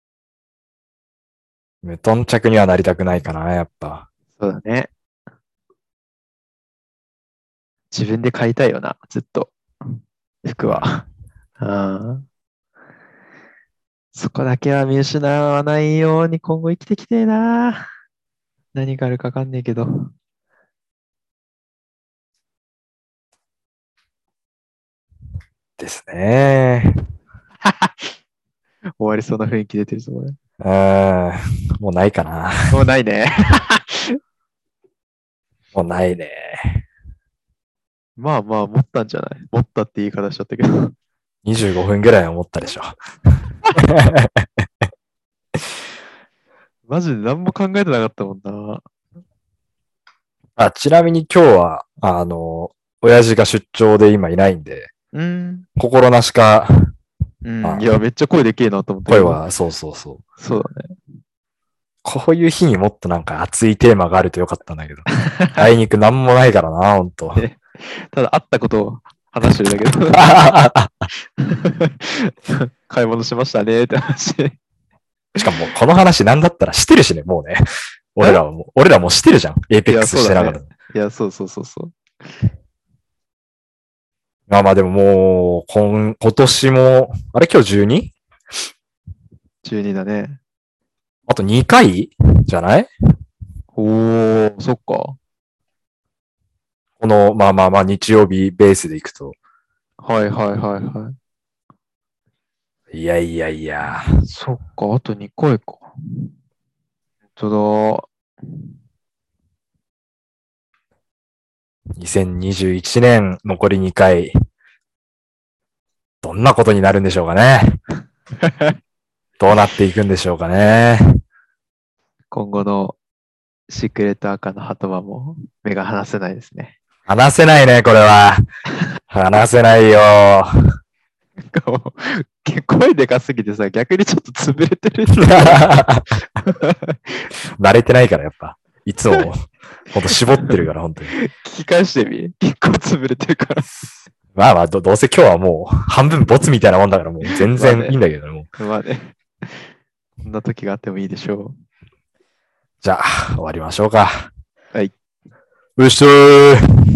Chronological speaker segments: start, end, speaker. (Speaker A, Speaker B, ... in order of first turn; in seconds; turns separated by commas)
Speaker A: 1.8-4.0, Speaker B: 4.4-4.9, Speaker B: 7.9-11.0, Speaker A: 10.6-10.9, Speaker B: 11.6-12.2, Speaker B: 14.1-17.9, Speaker B: 18.7-20.1, Speaker A: 25.8-26.9, Speaker B: 27.6-28.1, Speaker B: 29.0-30.4, Speaker A: 30.6-32.7, Speaker B: 32.7-34.2, Speaker A: 35.7-36.8, Speaker B: 38.2-40.9, Speaker A: 41.4-43.0, Speaker A: 43.8-44.6, Speaker B: 46.9-48.8, Speaker A: 50.5-54.9, Speaker B: 55.1-55.6, Speaker A: 55.8-56.7, Speaker B: 57.4-59.4, Speaker A: 59.1-60.2, Speaker B: 60.4-61.0, Speaker A: 62.0-67.4, Speaker B: 65.1-65.6, Speaker B: 67.3-70.5, Speaker A: 70.1-71.1, Speaker B: 71.4-74.5, Speaker A: 75.4-80.7, Speaker B: 79.8-81.9, Speaker A: 84.5-88.1, Speaker B: 89.6-90.4, Speaker A: 91.3-92.9, Speaker B: 93.7-95.2, Speaker A: 97.0-99.3, Speaker B: 100.0-101.2, Speaker A: 102.9-104.1, Speaker B: 104.2-106.3, Speaker B: 107.3-108.1, Speaker A: 112.0-114.3, Speaker A: 116.2-117.8, Speaker B: 118.4-118.8, Speaker A: 119.4-121.2, Speaker B: 122.3-123.0, Speaker B: 123.7-126.8, Speaker A: 127.1-128.4, Speaker A: 129.1-130.5, Speaker B: 131.4-135.8, Speaker A: 135.2-136.1, Speaker B: 136.4-137.3, Speaker A: 137.6-141.1, Speaker B: 140.1-140.6, Speaker B: 141.1-143.9, Speaker A: 144.3-148.5, Speaker B: 147.2-148.0, Speaker B: 148.6-149.7, Speaker B: 150.2-151.6, Speaker A: 152.8-154.3, Speaker A: 155.8-156.6